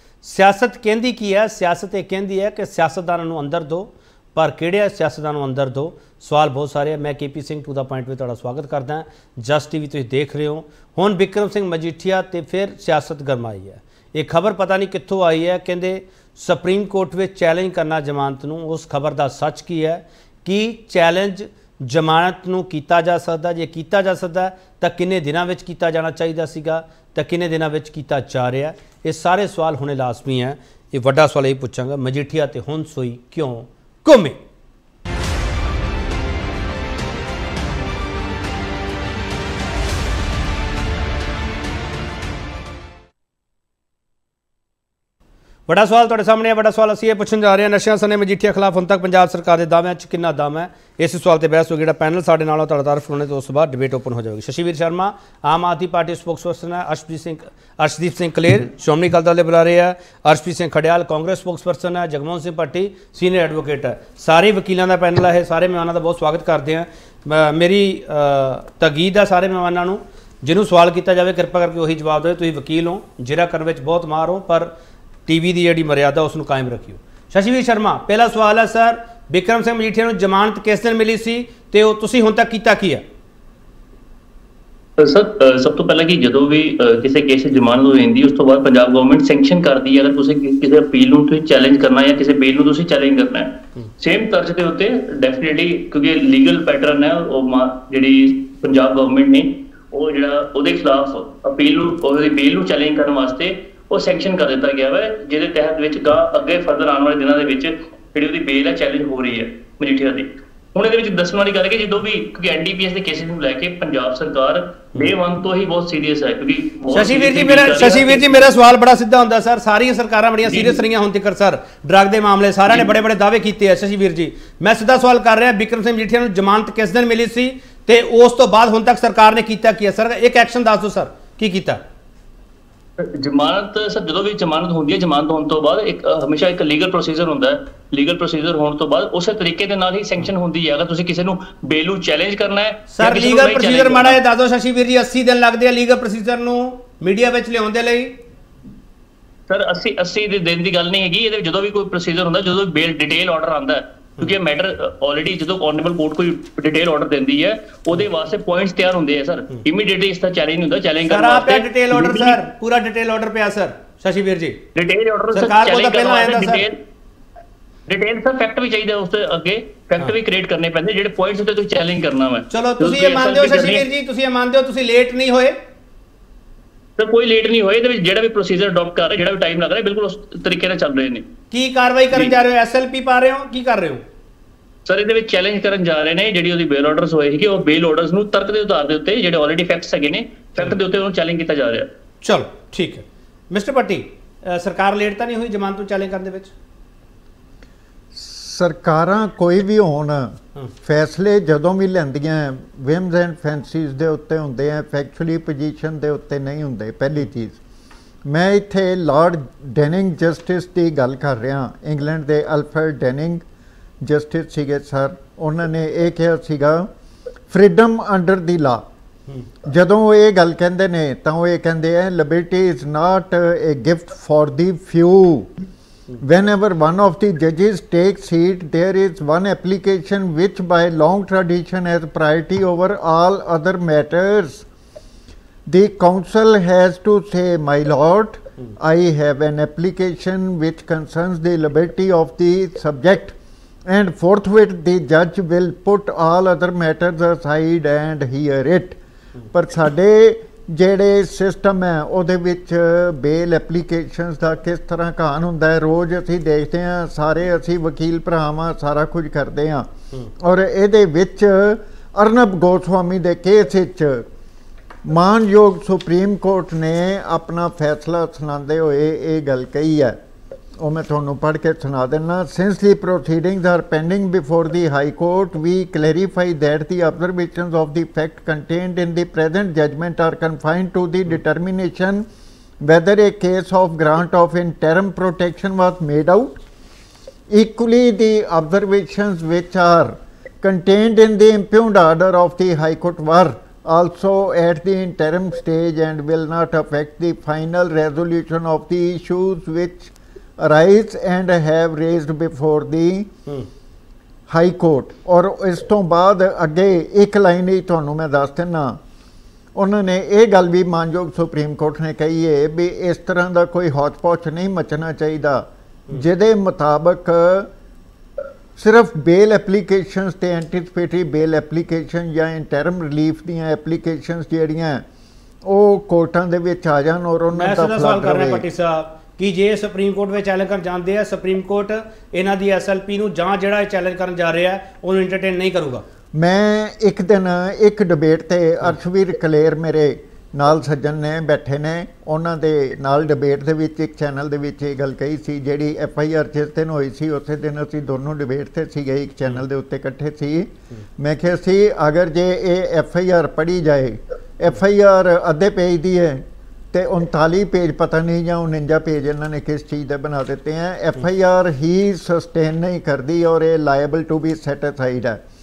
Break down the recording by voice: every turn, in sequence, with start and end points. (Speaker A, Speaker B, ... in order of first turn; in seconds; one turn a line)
Speaker A: 0.2-34.4
Speaker A: 45.7-74.7
Speaker A: 75.3-83.0
Speaker B: 85.0-118.5
Speaker A: 116.9-131.8
Speaker B: 120.5-120.8
Speaker B: 133.0-144.2
Speaker A: 142.9-148.2
Speaker B: 149.5-162.4
Speaker A: 161.1-164.6
Speaker B: 164.7-166.8
Speaker A: 165.3-166.6
Speaker B: 167.9-173.8
Speaker A: 172.5-175.6
Speaker B: 177.0-181.3
Speaker A: 181.5-184.0
Speaker B: 184.8-191.9
Speaker A: 192.2-196.5
Speaker C: 198.1-207.6
Speaker C: 208.2-213.4
Speaker C: 214.0-216.9
Speaker C: 217.5-218.9
Speaker C: 219.6-225.5
Speaker C: 226.2-234.6
Speaker C: 235.7-249.0
Speaker C: 249.5-264.2
Speaker C: 265.0-270.2
Speaker C: 270.8-282.2
Speaker C: 282.8-286.6
Speaker C: 287.5-303.3
Speaker C: 304.5-309.0
Speaker C: 309.7-317.7
Speaker C: 318.8-325.0
Speaker C: 325.6-328.6
Speaker A: 327.5-336.0
Speaker C: 336.3-365.4